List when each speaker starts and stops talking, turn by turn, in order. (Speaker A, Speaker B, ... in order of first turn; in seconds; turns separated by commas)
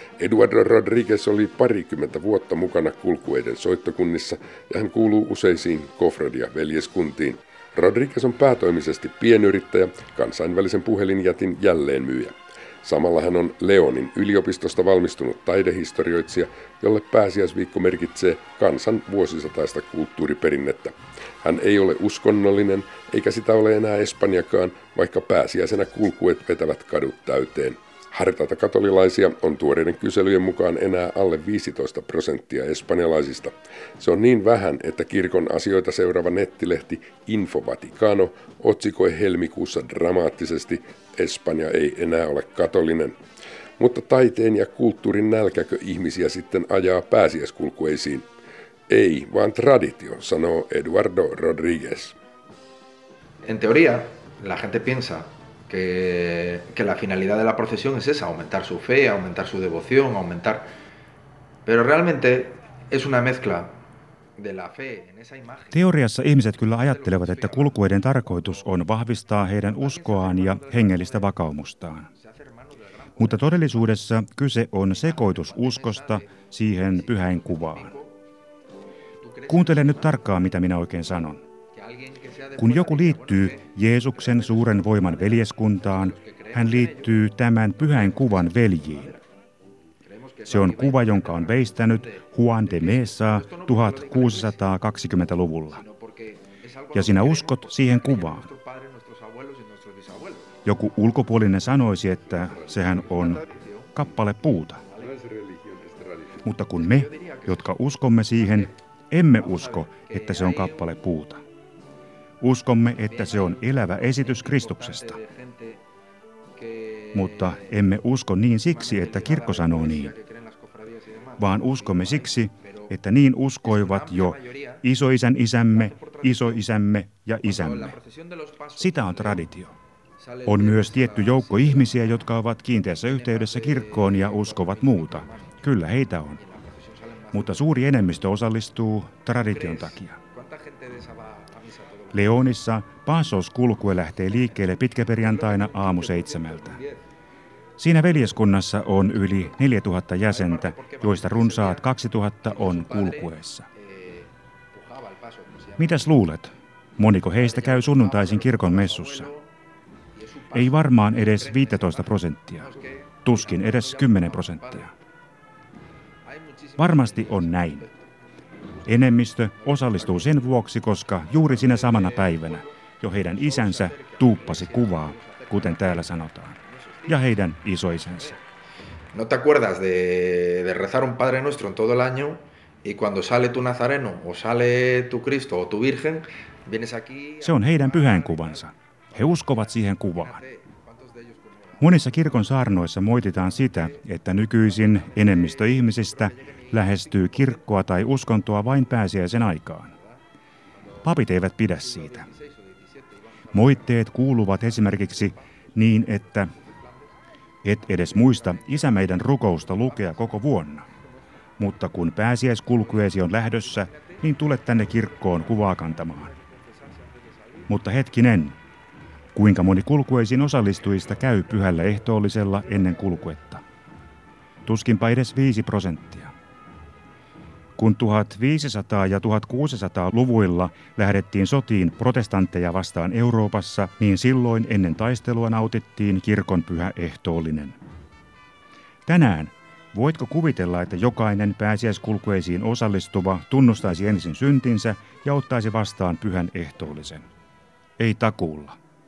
Speaker A: 0.2-43.2, Speaker A: 43.8-48.3, Speaker A: 48.9-52.2, Speaker B: 53.4-60.7, Speaker B: 61.6-63.8, Speaker B: 64.4-65.9, Speaker C: 65.7-72.1, Speaker B: 66.6-68.9, Speaker B: 69.6-71.5, Speaker B: 72.0-74.1, Speaker C: 73.2-77.9, Speaker B: 74.9-78.2, Speaker B: 79.2-80.3, Speaker C: 79.5-81.4, Speaker B: 81.7-89.2, Speaker C: 82.6-89.1, Speaker B: 90.0-94.8, Speaker C: 90.5-95.8, Speaker B: 95.7-100.6, Speaker C: 96.9-98.5, Speaker C: 100.6-104.8, Speaker B: 102.5-105.2, Speaker A: 105.0-106.4, Speaker C: 106.4-111.4, Speaker B: 106.7-107.7, Speaker B: 108.3-108.7, Speaker B: 109.4-110.9, Speaker C: 112.4-115.2, Speaker B: 113.0-115.8, Speaker B: 116.5-117.9, Speaker C: 117.1-120.1, Speaker B: 118.6-123.0, Speaker C: 121.4-127.9, Speaker B: 123.6-124.9, Speaker B: 125.7-126.7, Speaker B: 127.4-129.5, Speaker C: 128.8-129.8, Speaker B: 130.2-132.3, Speaker C: 130.4-136.4, Speaker B: 132.9-135.7, Speaker B: 136.3-138.1, Speaker C: 137.3-140.2, Speaker B: 139.3-142.6, Speaker C: 142.1-146.8, Speaker B: 144.3-147.0, Speaker C: 147.8-153.7, Speaker B: 150.3-151.9, Speaker B: 152.4-156.2, Speaker C: 155.8-159.3, Speaker B: 157.3-159.5, Speaker B: 160.2-164.9, Speaker C: 160.5-162.7, Speaker C: 163.2-164.9, Speaker B: 166.2-168.1, Speaker C: 166.8-167.8, Speaker B: 168.8-170.5, Speaker C: 168.8-176.6, Speaker B: 171.2-172.8, Speaker B: 173.3-177.4, Speaker C: 177.1-178.4, Speaker B: 177.9-178.4, Speaker B: 179.1-194.1, Speaker C: 187.4-190.4, Speaker C: 191.8-199.9, Speaker B: 194.6-197.9, Speaker B: 199.9-200.2, Speaker B: 200.9-204.1, Speaker C: 201.0-202.3, Speaker C: 203.5-206.5, Speaker B: 204.6-207.1, Speaker C: 207.6-210.9, Speaker B: 207.8-210.5, Speaker C: 211.6-216.3, Speaker B: 212.7-217.7, Speaker C: 217.7-218.6, Speaker C: 219.3-223.6, Speaker C: 224.6-226.3, Speaker C: 227.8-237.8, Speaker C: 239.1-247.3, Speaker C: 248.0-248.8